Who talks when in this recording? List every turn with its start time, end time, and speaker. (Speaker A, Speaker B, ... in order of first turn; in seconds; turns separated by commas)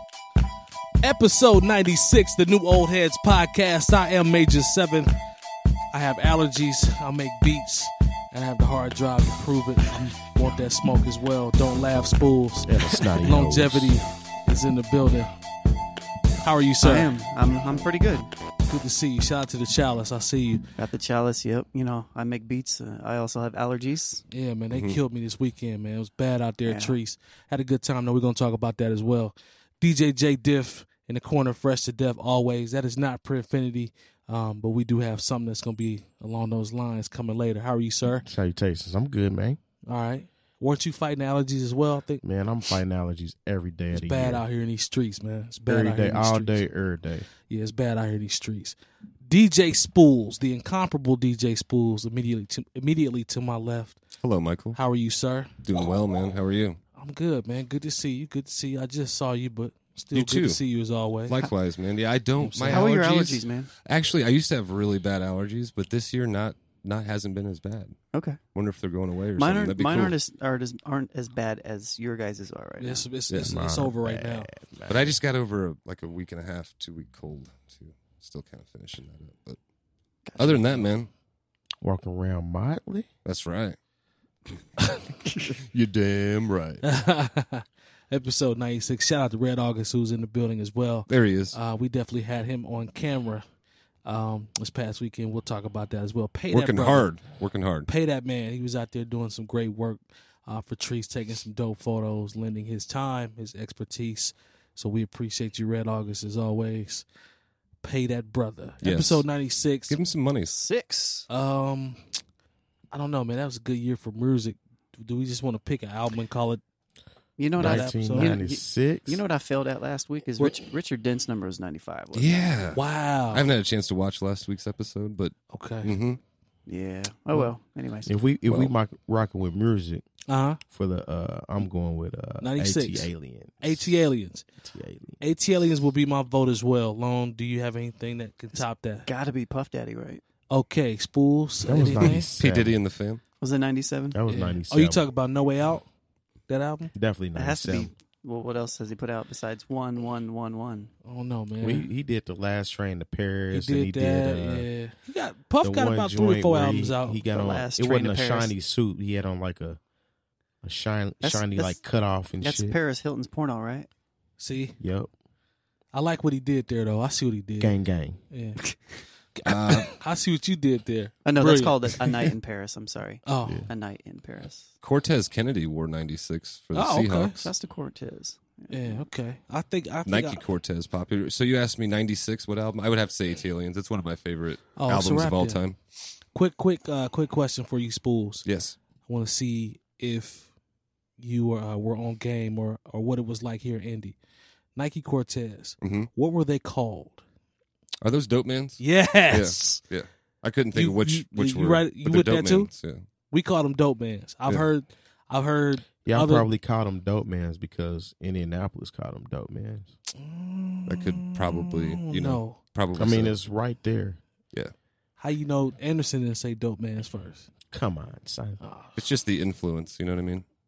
Speaker A: 1.0-5.1, Speaker A: 5.9-15.3, Speaker B: 12.7-14.0, Speaker A: 16.4-17.1, Speaker C: 16.8-18.3, Speaker A: 18.7-20.6, Speaker C: 20.8-24.2, Speaker A: 24.3-38.3, Speaker D: 24.7-25.0, Speaker C: 26.6-27.0, Speaker B: 38.2-39.6, Speaker A: 39.9-42.2, Speaker B: 42.2-44.4, Speaker A: 43.9-46.6, Speaker B: 45.7-47.3, Speaker A: 47.5-54.0, Speaker D: 54.2-54.8, Speaker A: 54.8-55.5, Speaker D: 55.6-56.8, Speaker A: 57.0-61.4, Speaker D: 60.1-60.6, Speaker D: 61.3-68.0, Speaker A: 62.4-62.9, Speaker C: 62.7-63.7, Speaker C: 68.1-68.4, Speaker D: 68.5-70.2, Speaker C: 69.4-73.1, Speaker A: 72.8-74.5, Speaker B: 73.3-75.2, Speaker D: 74.9-79.6, Speaker C: 80.3-80.9, Speaker D: 80.4-81.1, Speaker B: 81.8-83.1, Speaker D: 83.2-83.8, Speaker C: 85.2-85.5, Speaker D: 85.5-86.8, Speaker A: 86.8-93.5, Speaker D: 91.1-91.6, Speaker A: 94.0-97.1, Speaker D: 96.5-97.9, Speaker A: 97.9-107.0, Speaker A: 107.8-110.0, Speaker D: 108.8-109.2, Speaker D: 109.9-110.6, Speaker C: 110.5-111.3, Speaker A: 111.3-112.0, Speaker A: 112.9-116.6, Speaker C: 117.4-122.8, Speaker B: 117.6-119.2, Speaker A: 117.6-118.3, Speaker D: 122.1-126.2, Speaker A: 122.7-123.5, Speaker A: 125.5-125.9, Speaker C: 126.7-128.2, Speaker B: 128.1-130.1, Speaker D: 128.5-128.7, Speaker A: 130.3-130.6, Speaker B: 130.7-134.0, Speaker A: 132.4-133.1, Speaker A: 133.6-134.4, Speaker B: 134.6-135.2, Speaker A: 135.2-139.1, Speaker C: 138.6-140.2, Speaker A: 140.5-142.3, Speaker B: 141.7-142.8, Speaker D: 142.0-143.2, Speaker C: 143.4-144.2, Speaker B: 144.1-145.0, Speaker A: 144.3-145.9, Speaker A: 146.5-146.9, Speaker B: 146.9-147.9, Speaker C: 147.3-150.9, Speaker A: 151.1-151.9, Speaker B: 151.6-154.7, Speaker A: 153.5-157.2, Speaker B: 155.6-159.8, Speaker C: 157.3-158.5, Speaker B: 160.6-162.8, Speaker C: 161.2-161.8, Speaker C: 162.4-163.9, Speaker A: 164.4-164.8, Speaker B: 164.8-165.1, Speaker A: 165.9-167.8, Speaker B: 167.6-168.2, Speaker A: 168.3-168.6, Speaker A: 169.3-172.2, Speaker D: 169.4-169.9, Speaker C: 171.2-174.7, Speaker A: 173.3-173.7, Speaker D: 174.8-177.5, Speaker A: 176.7-177.4, Speaker C: 177.4-179.0, Speaker A: 178.7-180.4, Speaker D: 180.1-185.8, Speaker A: 184.8-185.6, Speaker A: 186.3-188.4, Speaker D: 188.4-188.8, Speaker A: 189.1-190.5, Speaker A: 191.2-194.2, Speaker A: 194.8-197.2, Speaker D: 195.8-196.1, Speaker D: 198.0-203.0, Speaker A: 198.8-199.8, Speaker A: 200.7-202.7, Speaker A: 203.3-206.5, Speaker B: 206.1-209.9, Speaker A: 210.2-212.6, Speaker D: 210.9-213.4, Speaker B: 212.9-214.2, Speaker A: 215.2-217.5, Speaker B: 217.7-218.6, Speaker A: 218.6-219.0, Speaker D: 219.0-220.4